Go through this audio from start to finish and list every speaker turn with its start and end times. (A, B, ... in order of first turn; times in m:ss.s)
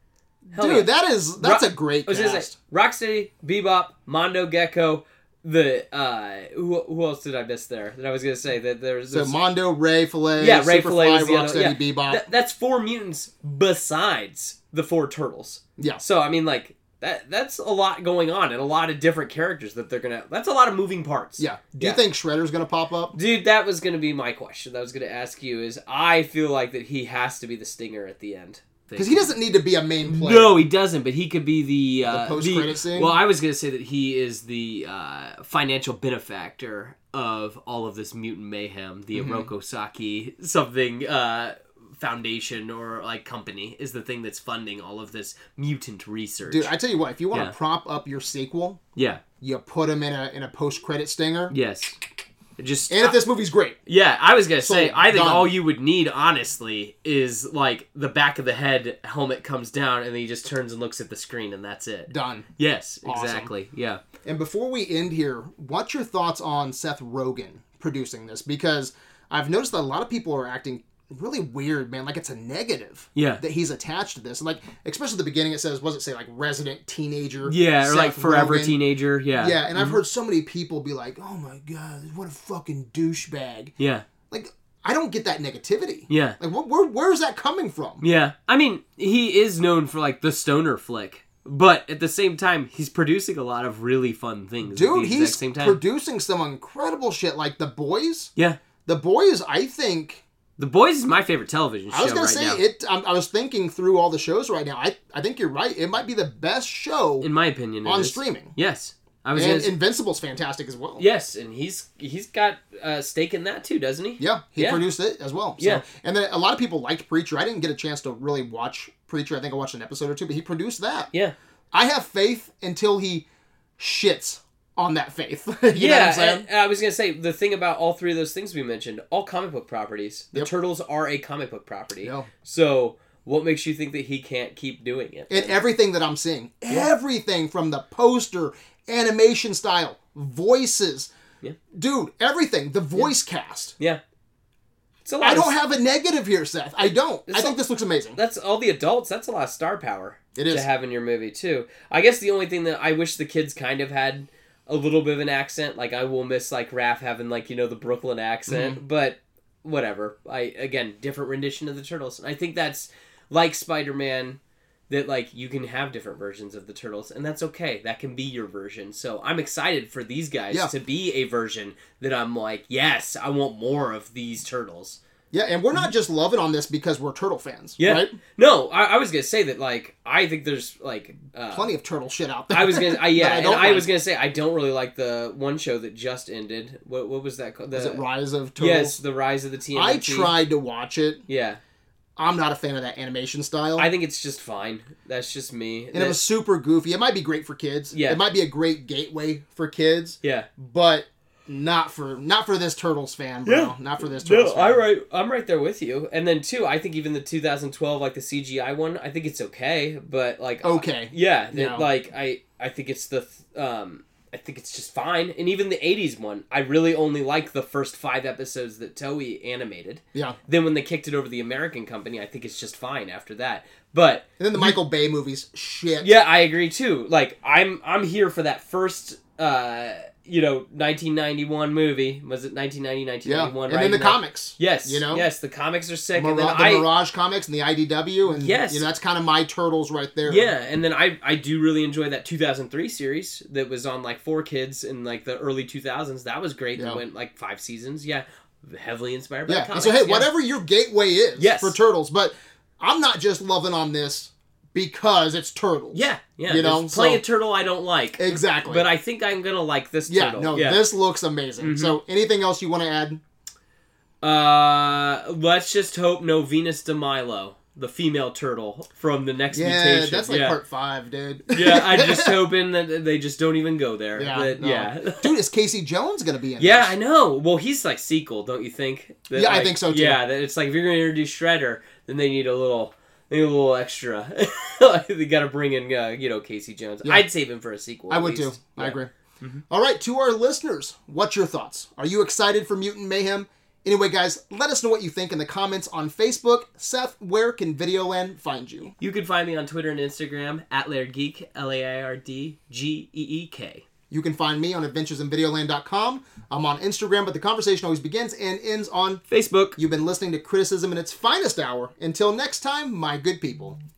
0:00.5-0:02.6 A
0:00.5-0:09.4 B
0:09.1-0:12.2 A
0:10.4-0:22.1 B
0:15.8-0:16.0 A
0:21.4-0:23.1 A
0:23.1-0:29.3 B
0:29.0-0:30.6 A
0:30.1-0:46.7 B
0:32.0-0:33.2 A
0:39.1-0:39.5 A
0:46.5-0:48.8 A
0:49.0-0:49.2 B
0:49.4-0:51.5 A
0:51.5-0:52.0 B
0:52.6-0:53.2 B
0:52.9-0:53.8 A
0:53.9-1:04.0 B
0:54.6-0:55.5 A
1:02.1-1:02.5 A
1:03.0-1:03.5 A
1:04.2-1:18.8 A
1:13.1-1:13.4 B
1:17.4-1:20.0 B
1:19.4-1:23.8 A
1:23.8-1:24.0 B
1:24.3-1:28.0 A
1:26.1-1:26.4 B
1:28.0-1:35.8 B
1:34.6-1:38.3 A
1:38.9-1:40.2 A
1:40.6-1:42.6 B
1:41.9-1:47.3 A
1:47.2-1:49.8 B
1:47.8-1:48.6 A
1:49.4-1:51.0 A
1:51.0-1:54.9 B
1:54.2-2:01.1 A
1:55.6-1:55.8 B
2:01.7-2:03.2 A
2:03.8-2:06.5 A
2:05.7-2:15.6 B
2:12.0-2:12.3 A
2:15.3-2:21.1 A
2:21.7-2:23.8 A
2:25.0-2:25.5 B
2:25.2-2:28.2 A
2:27.3-2:55.0 B
2:30.4-2:30.7 A
2:38.5-2:38.8 A
2:55.3-2:58.2 A
2:57.8-3:01.7 B
3:01.5-3:03.9 A
3:02.5-3:08.0 B
3:07.7-3:09.0 A
3:08.6-3:10.4 B
3:09.7-3:11.2 A
3:11.3-3:11.6 B
3:12.2-3:13.9 A
3:13.8-3:16.2 B
3:15.9-3:24.8 A
3:17.9-3:18.2 B
3:20.2-3:20.5 B
3:23.4-3:44.8 B
3:30.6-3:31.9 A
3:44.4-3:46.1 A
3:46.0-3:56.9 B
3:53.2-3:55.3 A
3:56.1-4:00.5 A
3:58.2-3:58.9 B
4:00.2-4:10.3 B
4:06.8-4:07.0 A
4:09.5-4:17.2 A
4:11.4-4:11.8 B
4:15.9-4:20.9 B
4:18.2-4:18.9 A
4:20.1-4:23.2 A
4:21.6-4:22.0 B
4:24.2-4:30.6 B
4:29.5-4:32.4 A
4:31.5-4:35.3 B
4:34.2-4:37.0 A
4:36.6-4:49.6 B
4:39.3-4:40.2 A
4:48.1-4:49.1 A
4:49.7-4:58.9 A
4:59.0-5:03.9 B
5:04.1-5:09.2 A
5:09.3-5:09.8 B
5:09.8-5:13.8 A